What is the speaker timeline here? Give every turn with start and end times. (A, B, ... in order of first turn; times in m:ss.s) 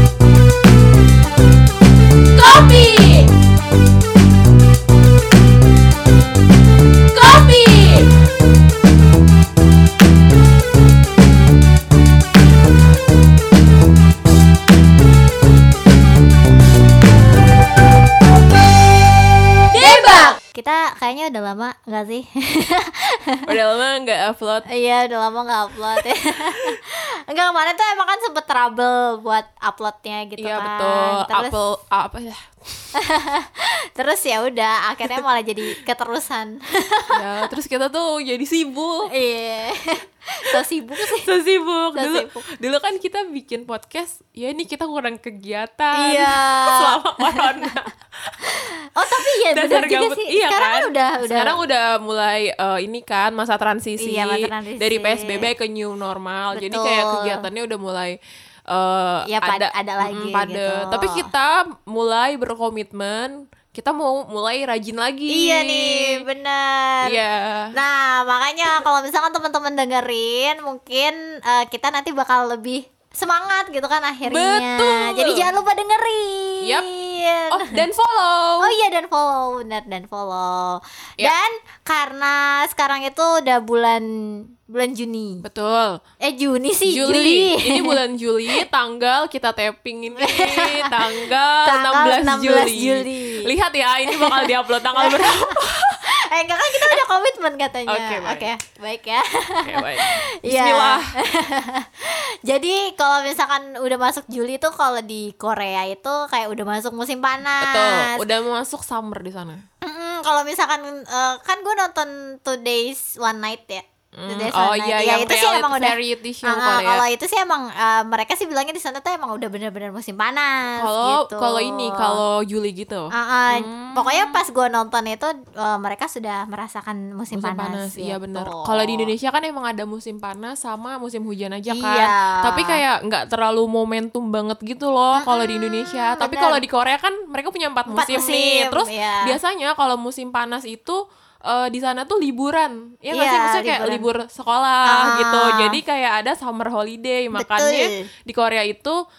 0:02.4-0:03.3 A
0:02.4-0:03.3 B
0:07.2-0:08.1 B
0:07.2-0:08.0 A
0:19.7-0:20.4 B
0:19.8-0:23.5 A
0:23.5-0:24.7 B
0:24.7-0:31.6 A
0:30.4-0:32.9 B
0:33.0-0:37.2 A
0:37.1-0:39.1 B
0:39.1-0:41.3 A
0:41.2-0:48.4 B
0:42.0-0:42.5 A
0:46.0-0:47.7 A
0:48.4-0:51.6 A
0:49.2-0:58.2 B
0:54.0-0:55.5 A
0:56.5-0:57.5 A
0:58.7-1:06.2 B
0:59.3-1:01.3 A
1:05.3-1:07.2 A
1:07.0-1:07.7 B
1:07.7-1:17.8 A
1:14.3-1:15.5 B
1:17.5-1:18.7 B
1:18.6-1:25.4 A
1:25.4-1:26.0 B
1:26.2-1:28.0 A
1:26.9-1:36.0 B
1:30.2-1:33.5 A
1:34.1-1:48.2 A
1:37.9-1:38.5 B
1:39.6-1:41.1 B
1:47.6-1:49.6 B
1:49.8-2:02.2 A
1:54.2-1:57.0 B
2:00.8-2:04.4 B
2:03.1-2:09.1 A
2:07.3-2:29.0 B
2:11.7-2:12.8 A
2:15.2-2:16.6 A
2:17.9-2:19.4 A
2:23.1-2:24.1 A
2:24.9-2:25.8 A
2:27.3-2:28.1 A